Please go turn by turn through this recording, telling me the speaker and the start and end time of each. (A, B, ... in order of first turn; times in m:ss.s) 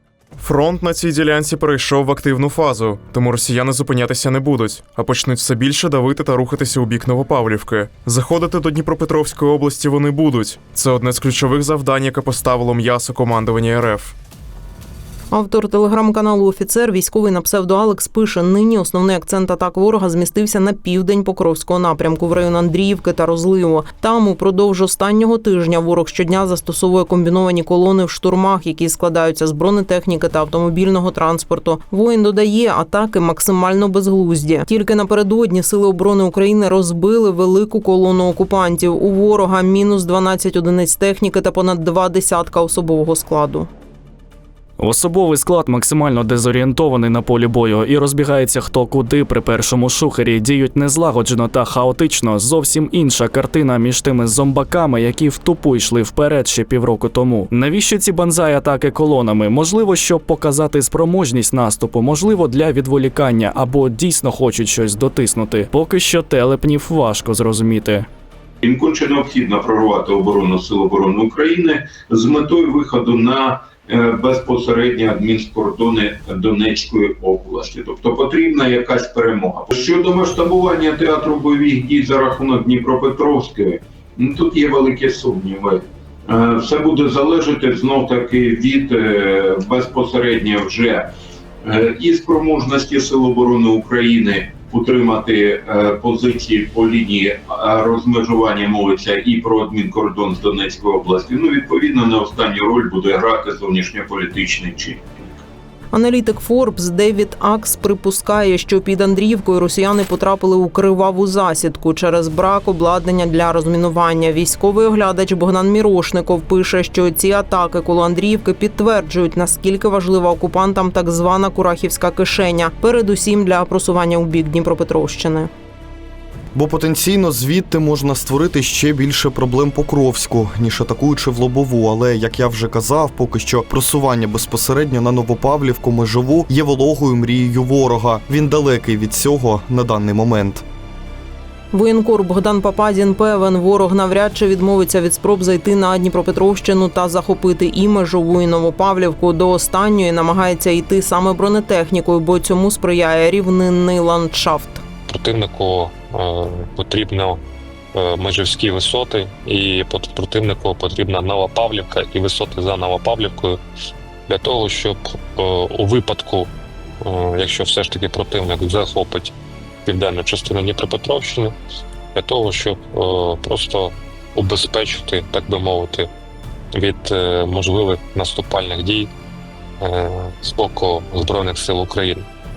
0:00.4-0:14.1 A
0:15.3-0:43.7 B
0:44.8-1:08.1 C
1:08.6-1:31.1 D
1:31.6-1:45.4 D
1:45.9-2:05.5 B
2:06.6-2:20.6 E
2:21.7-2:34.8 B
2:35.1-2:37.4 F
2:37.9-2:43.6 F
2:44.3-2:49.3 F
2:49.8-2:51.6 F
2:52.2-2:56.1 F
2:56.7-2:59.1 F
2:59.8-3:02.3 F